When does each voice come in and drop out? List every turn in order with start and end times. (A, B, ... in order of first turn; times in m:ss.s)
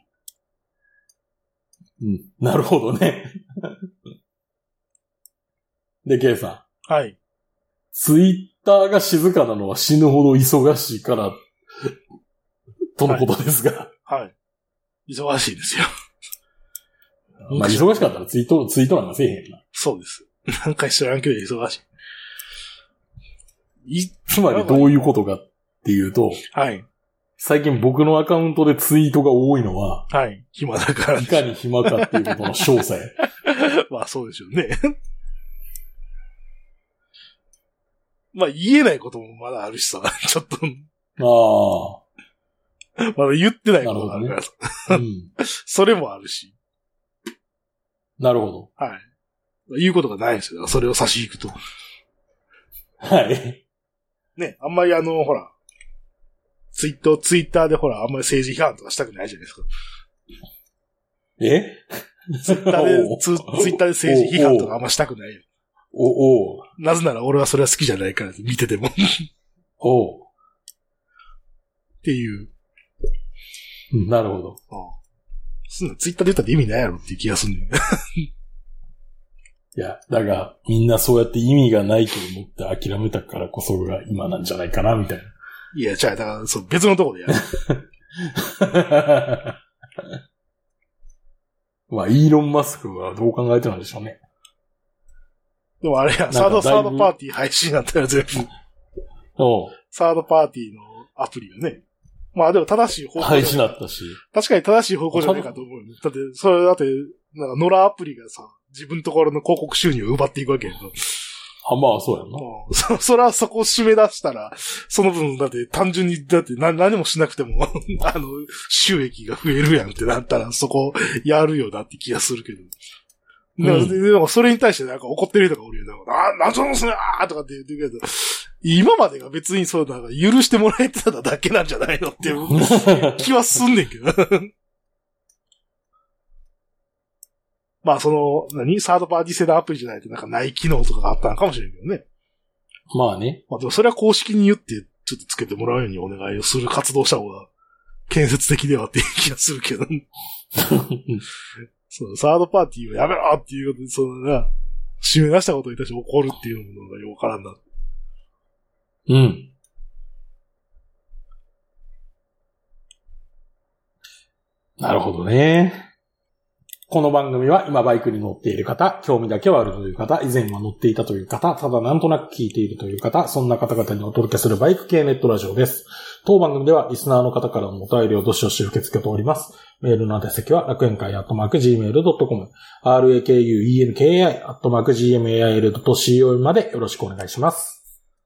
0:02.0-0:03.9 A
0:06.0-0:06.6 A
0:06.9-0:07.2 B
0:07.9-0:11.9 A
0:13.0-0:13.9 A
0:14.1-0:14.3 B
0:15.1-0:15.9 B
0:17.4-0:18.1 B
0:17.5-0:19.6 A
0:19.7-0:21.8 B
0:23.9-0:25.1 B
0:24.3-0:26.4 A
0:26.5-0:26.9 B
0:27.4-0:30.1 A
0:30.1-0:32.3 B
0:31.2-0:33.2 A
0:33.4-0:34.9 B
0:38.3-0:40.9 B
0:41.2-0:42.0 A
0:43.0-0:46.5 B
0:43.8-0:44.4 A
0:44.9-0:45.3 A
0:48.2-0:48.7 A
0:48.8-0:49.1 B
0:49.7-0:51.6 B
0:53.0-0:53.6 A
0:54.4-0:55.5 B
0:56.7-0:59.7 B
1:01.4-1:04.8 A
1:02.4-1:05.4 B
1:05.9-1:06.7 A
1:06.8-1:09.3 B
1:09.8-1:10.3 A
1:12.0-1:12.5 B
1:13.9-1:14.6 A
1:14.7-1:15.0 B
1:15.7-1:18.3 B
1:19.8-1:25.3 A
1:25.7-1:27.5 B
1:27.5-1:30.0 A
1:31.9-1:34.2 A
1:35.8-1:38.5 B
1:36.3-1:37.1 A
1:39.4-1:39.8 A
1:39.9-1:41.8 B
1:42.3-1:51.2 B
1:43.2-1:44.2 A
1:45.1-1:45.5 A
1:51.6-1:52.5 A
1:52.4-2:02.7 B
2:03.6-2:14.5 B
2:03.6-2:04.0 A
2:12.5-2:13.3 A
2:17.8-2:22.0 B
2:22.9-2:23.4 A
2:23.5-2:27.5 B
2:28.1-2:30.1 B
2:30.6-2:31.2 A
2:31.9-2:37.6 B
2:39.1-2:39.5 A
2:44.8-2:45.9 A
2:46.9-3:07.8 A